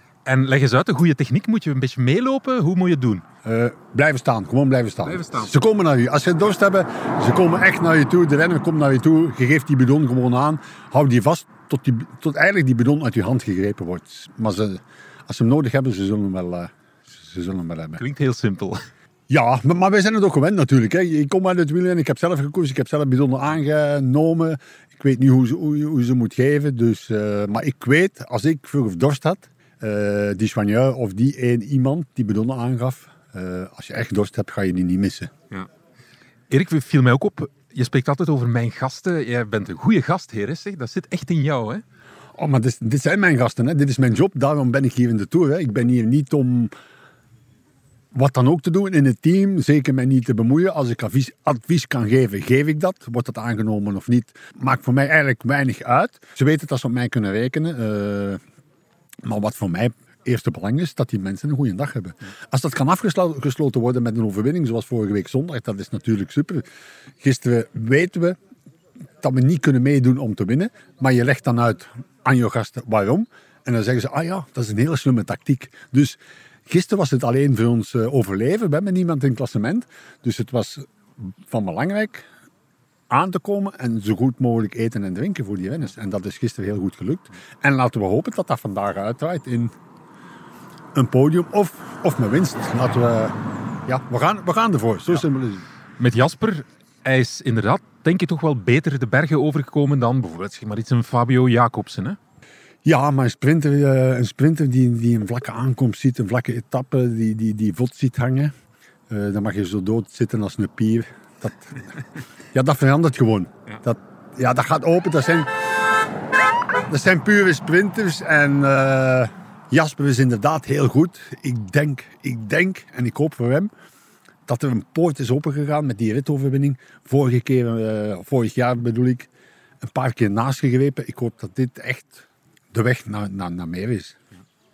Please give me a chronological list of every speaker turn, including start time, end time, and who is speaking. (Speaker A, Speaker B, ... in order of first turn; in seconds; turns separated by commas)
Speaker A: 0.3-3.2, Speaker B: 3.5-18.0, Speaker A: 5.1-5.5, Speaker A: 18.0-18.8, Speaker B: 19.3-35.3, Speaker A: 36.5-41.8, Speaker B: 42.4-46.7, Speaker B: 48.1-58.4, Speaker B: 59.2-66.6, Speaker B: 67.2-68.4, Speaker B: 69.2-82.3, Speaker B: 83.1-89.7, Speaker B: 91.0-95.7, Speaker A: 96.0-102.2, Speaker B: 102.8-108.5, Speaker B: 109.1-111.9, Speaker B: 112.5-115.5, Speaker B: 116.9-123.7, Speaker B: 124.5-129.3, Speaker B: 129.8-134.2